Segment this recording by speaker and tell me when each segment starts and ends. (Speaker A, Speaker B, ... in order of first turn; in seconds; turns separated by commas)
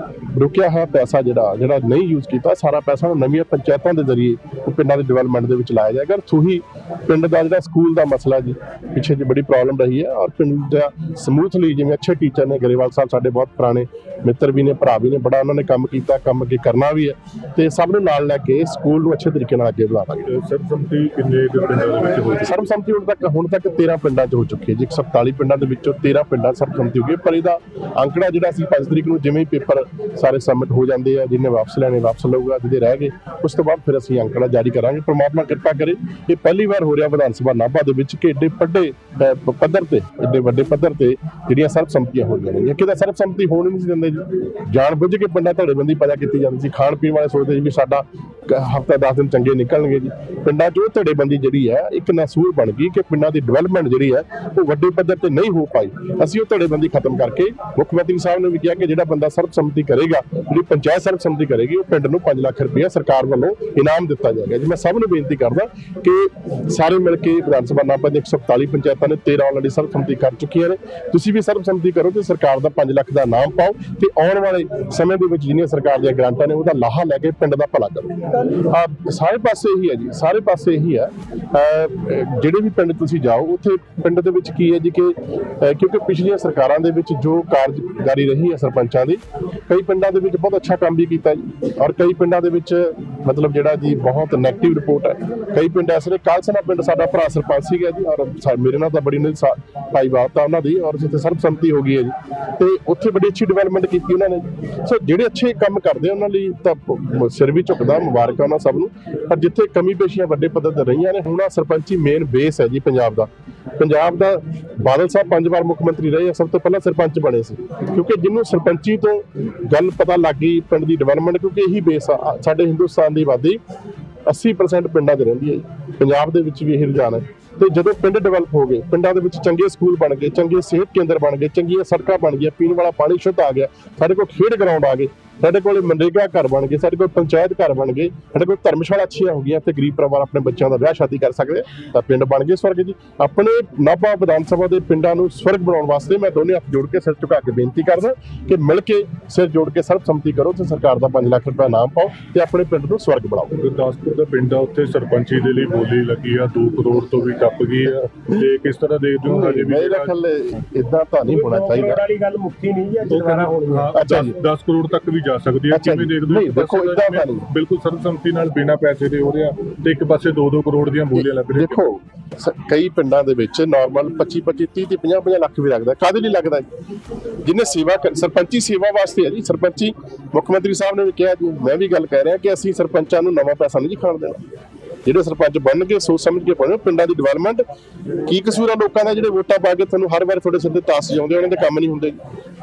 Speaker A: 0.3-20.3, Speaker B: 20.3-22.6, Speaker A: 22.4-123.6, Speaker A: 124.3-153.6, Speaker B: 153.6-160.1, Speaker A: 159.3-162.0, Speaker C: 161.2-163.9, Speaker B: 163.1-171.8, Speaker A: 163.9-164.3, Speaker A: 165.7-167.5, Speaker A: 171.2-176.7, Speaker A: 177.4-184.4, Speaker A: 185.1-187.6, Speaker A: 188.2-192.2